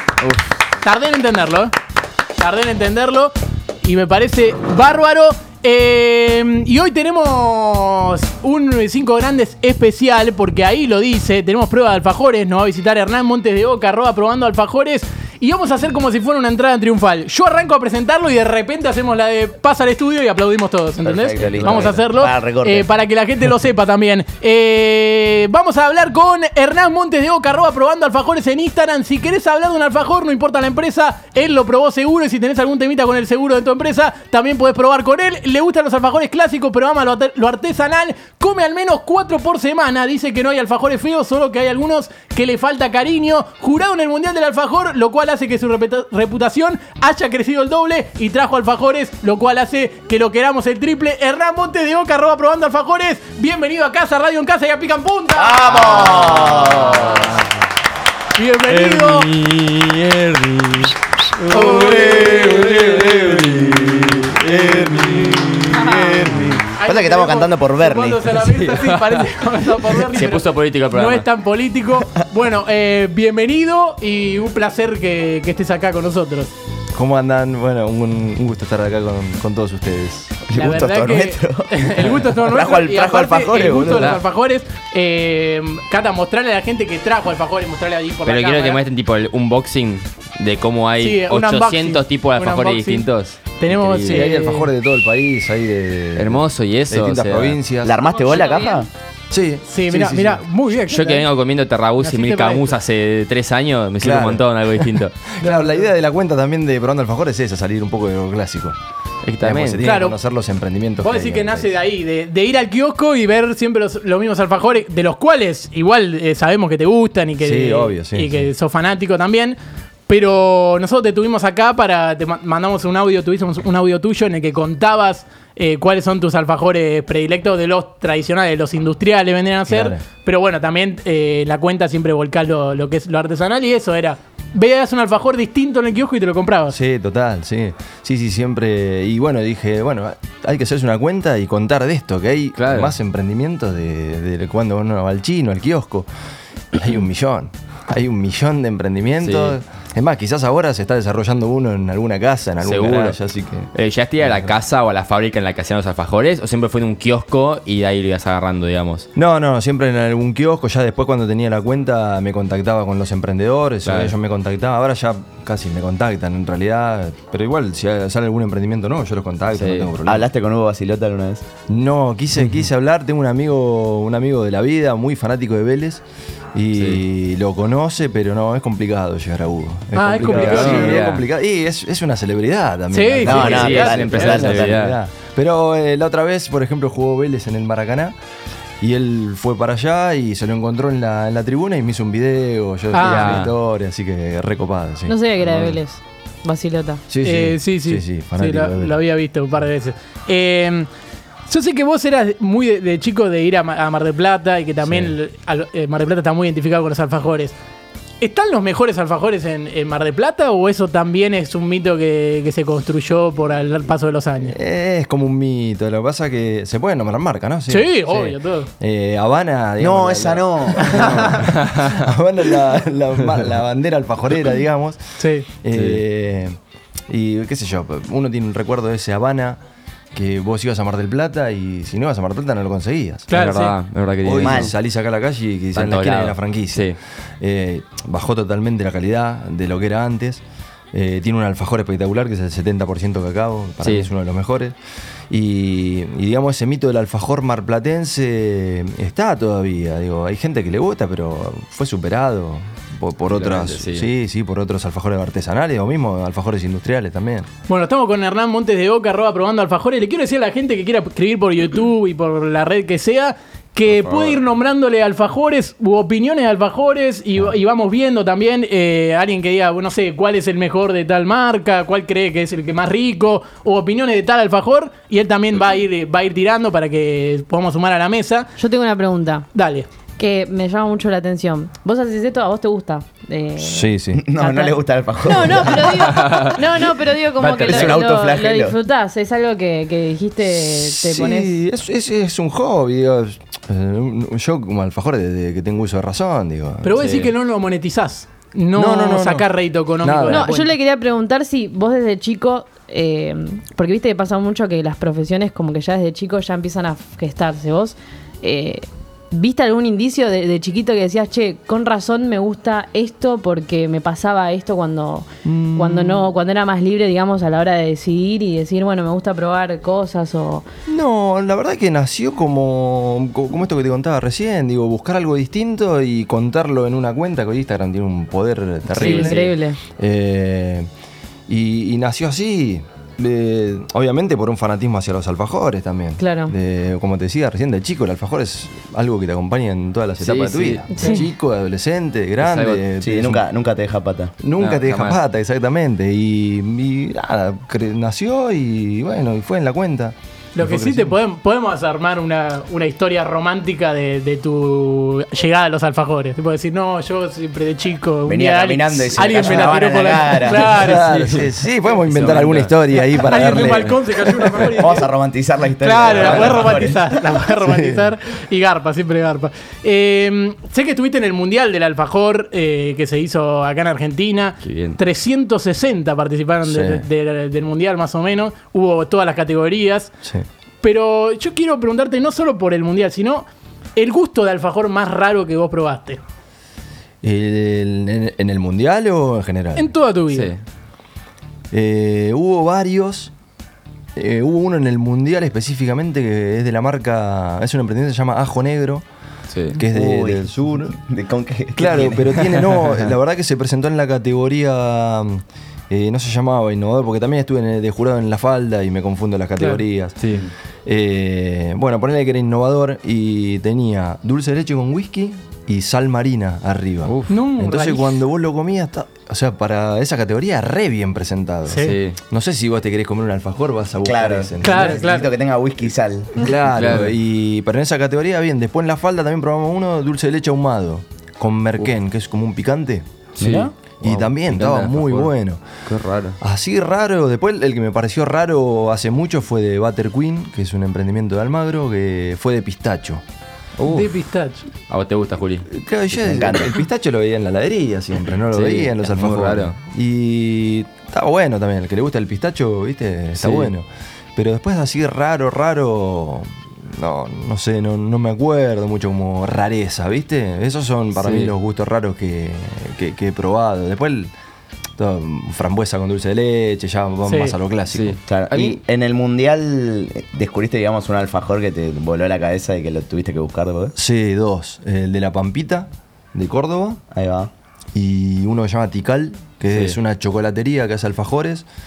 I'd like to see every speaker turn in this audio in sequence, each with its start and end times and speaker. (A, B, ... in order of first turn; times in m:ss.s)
0:00.2-0:00.5 A
0:00.8-0:01.7 B
0:02.4-0:57.4 B
0:21.0-0:22.9 C
0:55.4-0:57.3 C
0:58.4-0:59.3 B
0:58.7-1:06.6 A
1:01.4-1:03.3 B
1:02.8-1:03.4 D
1:04.8-1:16.5 B
1:05.8-1:08.3 C
1:05.8-1:06.1 E
1:08.3-1:11.3 A
1:16.9-1:20.4 D
1:20.5-1:24.2 C
1:20.5-1:28.8 B
1:23.8-1:24.2 A
1:28.3-1:34.3 A
1:31.0-1:34.7 B
1:34.1-1:38.0 D
1:36.2-1:37.6 A
1:37.8-1:38.9 C
1:38.1-1:38.8 E
1:39.3-1:40.4 D
1:39.7-1:41.3 B
1:40.9-1:45.2 A
1:42.0-1:42.8 B
1:44.0-1:48.8 D
1:49.2-1:49.9 A
1:49.4-1:51.7 D
1:49.8-1:50.2 B
1:51.0-1:59.6 B
1:57.4-1:58.5 D
2:00.1-2:16.8 B
2:09.7-2:10.0 D
2:16.7-2:26.1 D
2:22.6-2:22.9 A
2:26.7-2:33.7 D
2:29.2-2:29.6 A
2:32.6-2:33.2 A
2:33.7-2:39.1 A
2:34.2-2:34.5 D
2:39.2-2:50.3 D
2:43.8-2:44.1 A
2:49.6-2:49.9 A
2:50.1-2:51.5 C
2:51.7-2:56.0 D
2:56.5-3:08.2 D
2:56.8-2:57.0 A
3:00.0-3:01.0 B
3:00.3-3:01.2 A
3:02.9-3:04.4 B
3:03.2-3:04.8 C
3:03.3-3:05.0 A
3:08.8-3:15.8 D
3:12.9-3:13.4 B
3:13.0-3:13.5 A
3:15.1-3:17.0 E
3:17.1-3:19.0 D
3:17.2-3:20.9 B
3:21.5-3:27.6 B
3:24.8-3:25.1 D
3:28.2-3:34.6 B
3:34.4-3:38.3 D
3:37.7-3:38.7 B
3:38.8-3:46.6 D
3:39.8-3:41.0 C
3:40.8-3:41.5 B
3:41.4-3:42.0 A
3:45.2-3:45.5 B
3:45.7-3:46.0 A
3:47.1-3:49.6 D
3:50.1-3:53.4 D
3:53.3-3:53.8 B
3:53.3-3:54.7 A
3:54.2-4:00.4 D
3:54.4-3:54.7 C
3:55.8-3:57.0 A
4:00.9-4:04.8 D
4:03.8-4:04.1 A
4:05.3-4:17.5 D
4:13.3-4:14.1 A
4:17.7-4:38.5 B
4:23.9-4:24.4 A
4:38.6-4:39.5 E
4:39.5-4:39.9 B
4:40.2-4:51.6 E
4:43.6-4:44.2 D
4:44.2-4:46.2 C
4:46.0-4:46.6 A
4:47.4-4:48.8 C
4:47.7-4:47.9 A
4:50.5-4:57.3 D
4:56.8-5:00.7 B
4:58.8-4:59.5 D
5:00.0-5:00.5 D
5:00.3-5:20.7 E
5:15.4-5:16.3 D
5:20.9-5:30.9 D
5:28.9-5:29.5 A
5:29.0-5:29.8 E
5:31.5-5:43.4 D
5:36.2-5:36.5 E
5:40.2-5:40.9 A
5:41.0-5:41.2 E
5:41.0-5:41.2 B
5:42.4-5:42.8 A
5:43.0-5:44.3 C
5:44.4-5:51.1 D
5:44.6-5:45.2 A
5:50.6-6:01.2 B
5:58.3-6:01.0 C
6:00.6-6:04.7 D
6:01.0-6:03.8 A
6:03.2-6:05.1 B
6:04.8-6:07.3 C
6:05.8-6:20.1 B
6:06.1-6:06.8 A
6:07.6-6:08.1 D
6:14.6-6:15.0 A
6:16.7-6:17.0 D
6:20.8-6:26.2 B
6:27.2-6:29.9 D
6:29.8-6:30.5 B
6:30.3-6:30.6 A
6:31.7-6:33.3 D
6:34.2-6:39.0 D
6:39.5-6:39.8 A
6:39.8-6:41.0 D
6:39.9-6:42.5 C
6:41.8-6:50.2 D
6:42.6-6:43.1 A
6:50.8-7:05.0 D
6:57.1-6:57.3 A
6:57.3-6:58.2 B
7:01.7-7:02.0 B
7:01.8-7:02.2 A
7:04.0-7:06.4 C
7:04.6-7:05.3 B
7:06.4-7:13.1 D
7:06.7-7:07.1 A
7:13.4-7:15.3 A
7:13.4-7:13.7 C
7:13.4-7:13.7 B
7:14.0-7:15.6 D
7:15.9-7:16.4 A
7:16.4-7:23.2 D
7:23.8-7:24.1 A
7:23.8-7:24.6 B
7:24.9-7:25.7 A
7:25.7-7:44.3 D
7:26.2-7:26.7 C
7:28.5-7:29.7 A
7:33.4-7:33.7 A
7:41.2-7:41.5 A
7:45.0-7:48.2 D
7:47.2-7:47.6 B
7:47.9-7:48.8 A
7:48.3-7:54.0 C
7:54.0-7:57.0 D
7:57.1-7:57.5 C
7:57.9-8:01.7 D
7:59.7-8:00.0 A